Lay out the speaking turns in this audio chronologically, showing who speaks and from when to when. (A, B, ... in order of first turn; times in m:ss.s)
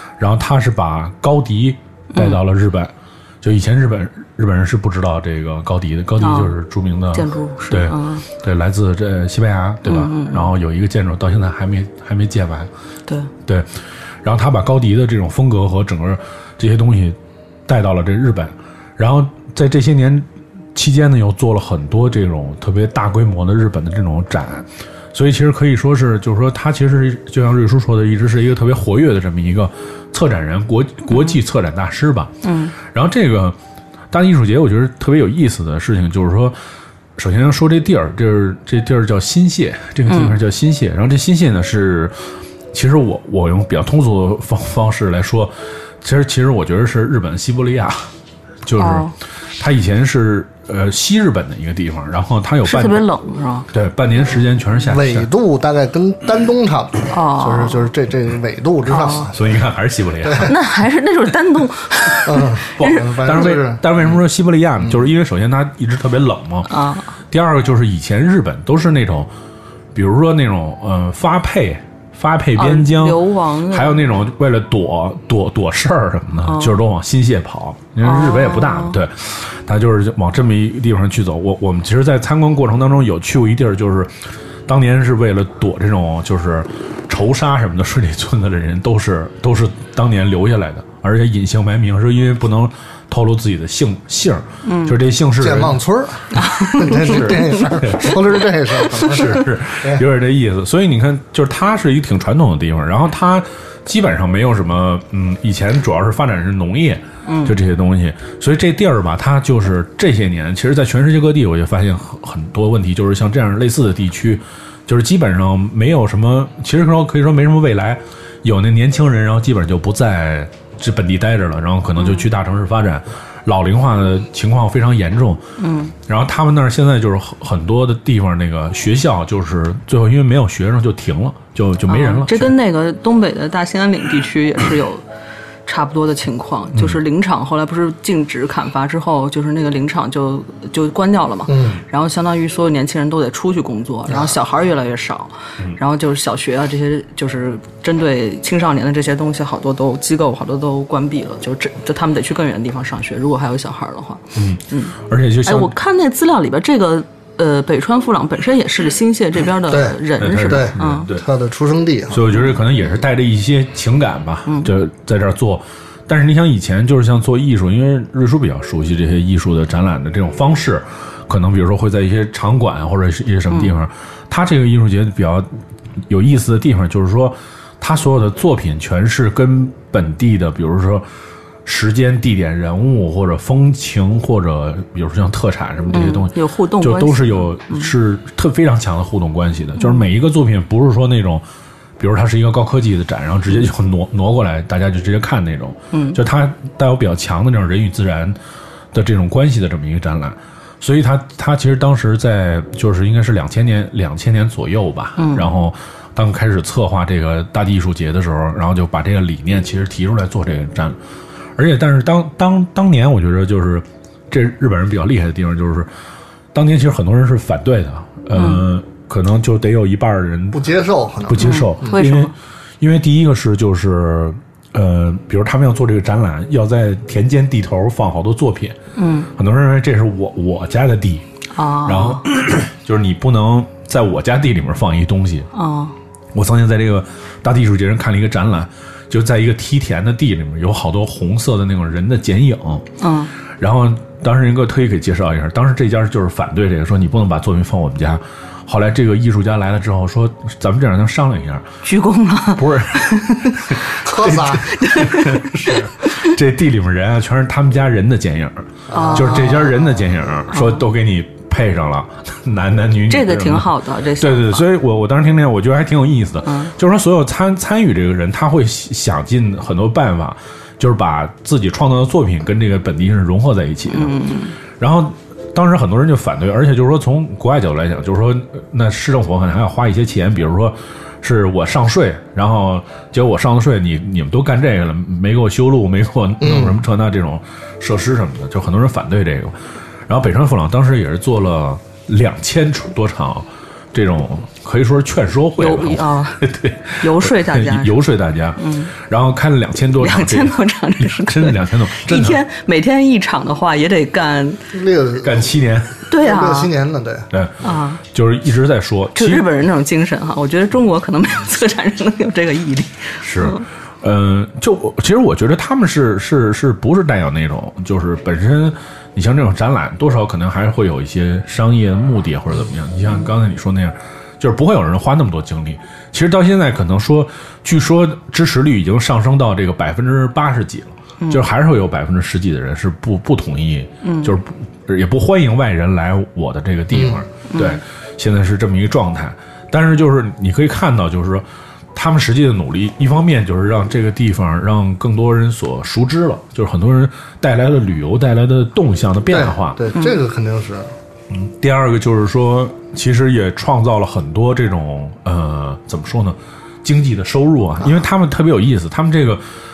0:00.2-0:12.7 A
0:06.2-0:06.6 B
0:07.1-0:08.3 B
0:09.8-0:10.5 B
0:14.2-0:33.6 A
0:31.1-0:31.4 B
0:32.4-0:32.8 B
0:34.1-0:36.6 A
0:37.2-0:48.1 A
0:40.1-0:40.4 B
0:48.6-0:53.1 A
0:48.8-0:49.1 B
0:52.6-0:53.7 B
0:53.7-0:55.3 A
0:54.8-0:59.5 C
0:57.1-0:57.9 B
0:58.9-0:59.3 B
0:59.3-1:00.5 A
1:00.2-1:00.5 C
1:00.4-1:03.5 B
1:02.3-1:04.1 C
1:02.8-1:06.7 A
1:06.7-1:07.1 B
1:07.3-1:09.3 A
1:09.9-1:13.2 A
1:12.6-1:14.2 B
1:13.7-1:24.1 A
1:16.4-1:16.8 B
1:18.0-1:19.0 B
1:24.7-1:35.8 A
1:34.6-1:35.0 B
1:35.4-1:40.0 C
1:36.4-1:38.3 B
1:37.0-1:38.2 A
1:38.9-1:39.3 B
1:39.0-2:05.4 A
1:47.3-1:47.5 B
2:02.0-2:02.3 B
2:05.6-2:05.9 B
2:06.1-2:12.5 A
2:11.9-2:15.0 B
2:15.7-2:41.1 B
2:21.5-2:21.8 C
2:24.1-2:24.4 C
2:34.4-2:35.7 A
2:39.7-2:42.2 C
2:40.2-2:41.2 A
2:42.1-3:01.1 A
3:01.6-3:11.4 A
3:05.9-3:07.9 B
3:12.0-3:18.4 A
3:15.9-3:16.2 B
3:18.9-3:31.0 A
3:25.2-3:25.5 B
3:31.6-3:35.9 A
3:36.5-3:40.6 A
3:38.3-3:38.6 B
3:40.5-3:41.7 C
3:41.3-3:48.8 A
3:41.4-3:42.3 B
3:49.0-3:49.3 B
3:49.4-3:51.2 A
3:51.5-3:52.2 B
3:51.8-3:55.5 A
3:55.5-3:56.0 B
3:56.3-4:02.8 A
4:03.0-4:03.3 B
4:03.6-4:11.7 A
4:11.8-4:13.6 B
4:12.6-4:34.2 A
4:14.0-4:14.7 C
4:14.7-4:16.2 B
4:18.9-4:19.8 C
4:18.9-4:19.7 B
4:20.5-4:20.8 B
4:23.1-4:24.6 B
4:26.5-4:26.7 B
4:33.9-4:34.6 B
4:34.8-4:49.6 A
4:46.4-4:46.8 C
4:50.1-5:02.4 A
4:55.6-4:58.0 B
4:58.6-4:58.9 B
5:00.0-5:04.7 B
5:04.7-5:05.5 C
5:05.2-5:06.0 A
5:06.1-5:06.7 B
5:06.2-5:07.3 C
5:07.3-5:09.5 A
5:07.6-5:08.0 B
5:09.2-5:13.6 B
5:13.2-5:49.8 A
5:34.0-5:34.3 B
5:36.9-5:37.2 C
5:37.5-5:37.8 B
5:49.3-5:50.9 C
5:51.3-5:59.4 A